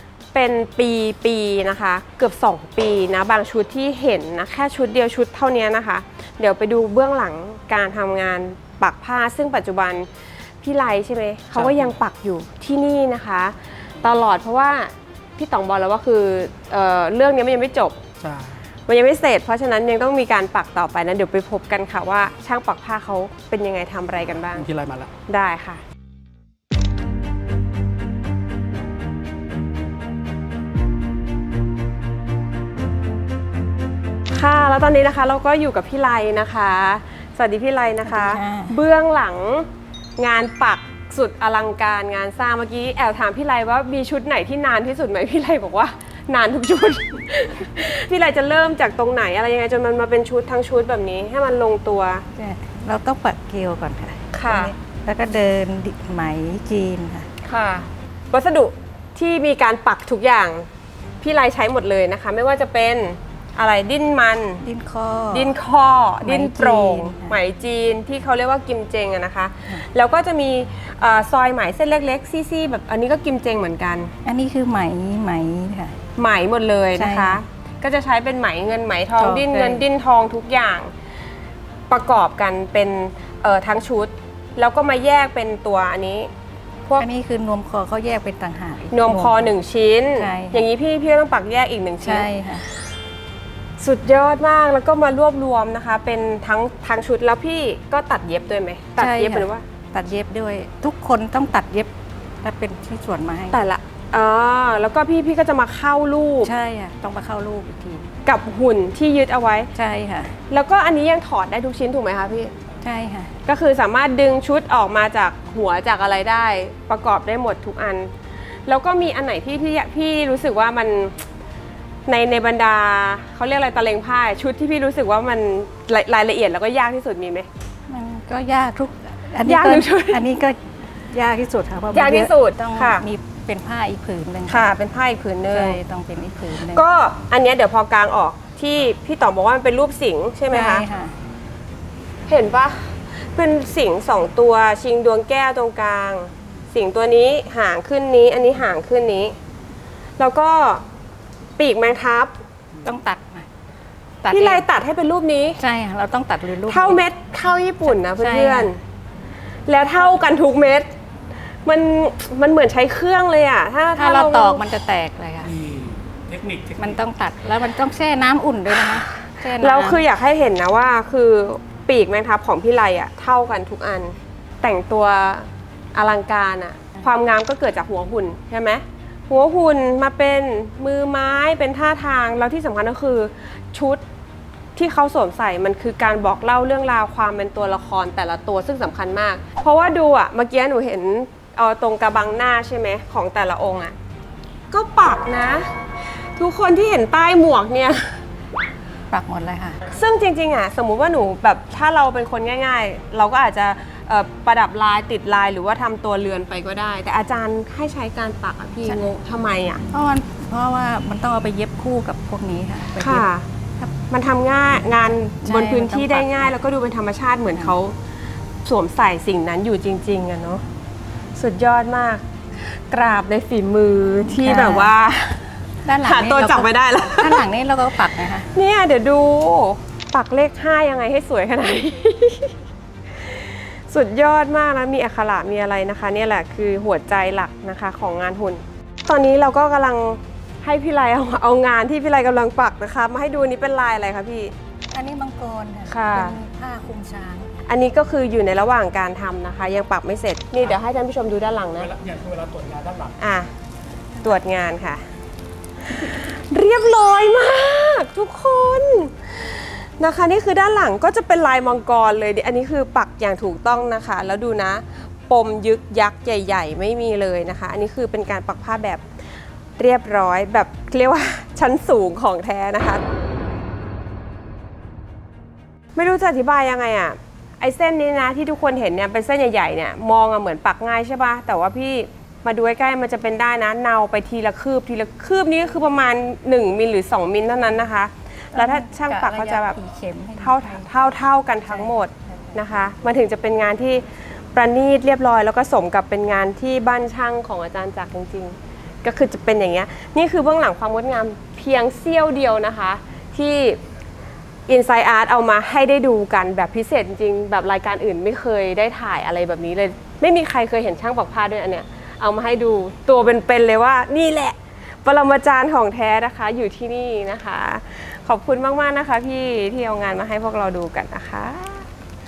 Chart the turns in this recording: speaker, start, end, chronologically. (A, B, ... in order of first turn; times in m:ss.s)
0:00.3-0:10.1 A
0:10.6-0:18.0 A
0:11.6-0:12.0 B
0:18.2-0:18.6 B
0:18.9-0:24.7 A
0:24.6-0:25.1 B
0:25.3-0:25.8 A
0:34.3-0:52.3 A
0:38.0-0:38.8 C
0:52.4-0:57.3 C
0:54.3-0:54.7 A
0:57.4-1:00.7 A
1:01.2-1:04.6 A
1:04.6-1:05.5 C
1:05.3-1:14.1 A
1:06.2-1:07.4 C
1:14.2-1:16.0 C
1:16.2-1:20.9 A
1:17.0-1:17.4 C
1:19.2-1:19.8 C
1:21.9-1:26.3 A
1:27.0-1:29.5 C
1:28.9-1:32.3 A
1:30.2-1:30.6 C
1:32.0-1:32.6 C
1:33.8-1:39.6 A
1:39.0-1:43.6 C
1:43.5-1:46.5 A
1:46.4-1:48.1 C
1:48.2-1:49.7 A
1:49.8-1:50.4 C
1:50.5-1:52.5 A
1:52.8-1:53.3 C
1:53.5-1:58.1 A
1:58.7-2:01.2 A
2:02.1-2:07.5 A
2:07.9-2:14.7 C
2:09.4-2:10.2 A
2:11.9-2:13.0 A
2:14.5-2:15.8 A
2:15.5-2:16.8 C
2:16.6-2:20.8 A
2:20.5-2:21.1 C
2:22.3-2:29.4 A
2:30.2-2:30.8 A
2:31.6-2:32.4 A
2:32.8-2:33.5 C
2:34.2-2:34.7 C
2:34.3-2:35.6 A
2:35.6-2:37.0 C
2:36.7-2:38.8 A
2:37.8-2:38.7 C
2:39.7-2:40.9 A
2:41.6-2:44.6 A
2:44.0-2:45.5 C
2:45.4-2:47.0 B
2:46.8-2:50.0 C
2:48.8-3:04.0 A
3:04.8-3:14.0 A
3:14.7-3:18.2 A
3:19.1-3:19.8 C
3:19.9-3:29.8 A
3:29.9-3:33.9 C
3:33.0-3:33.5 A
3:34.1-3:38.0 A
3:35.4-3:36.5 C
3:38.6-3:40.6 A
3:41.4-3:45.4 A
3:44.3-3:44.9 C
3:45.8-3:48.5 C
3:46.0-3:47.5 A
3:48.5-3:52.6 A
3:53.2-4:04.5 A
4:04.9-4:07.5 C
4:05.9-4:06.4 A
4:07.7-4:11.9 A
4:11.8-4:13.2 B
4:13.2-4:13.5 A
4:14.2-4:15.0 A
4:15.9-4:29.0 A
4:29.8-4:33.0 A
4:36.0-4:49.8 A
4:48.5-4:50.9 C
4:50.4-5:03.8 A
4:51.7-4:52.6 C
5:04.7-5:21.9 A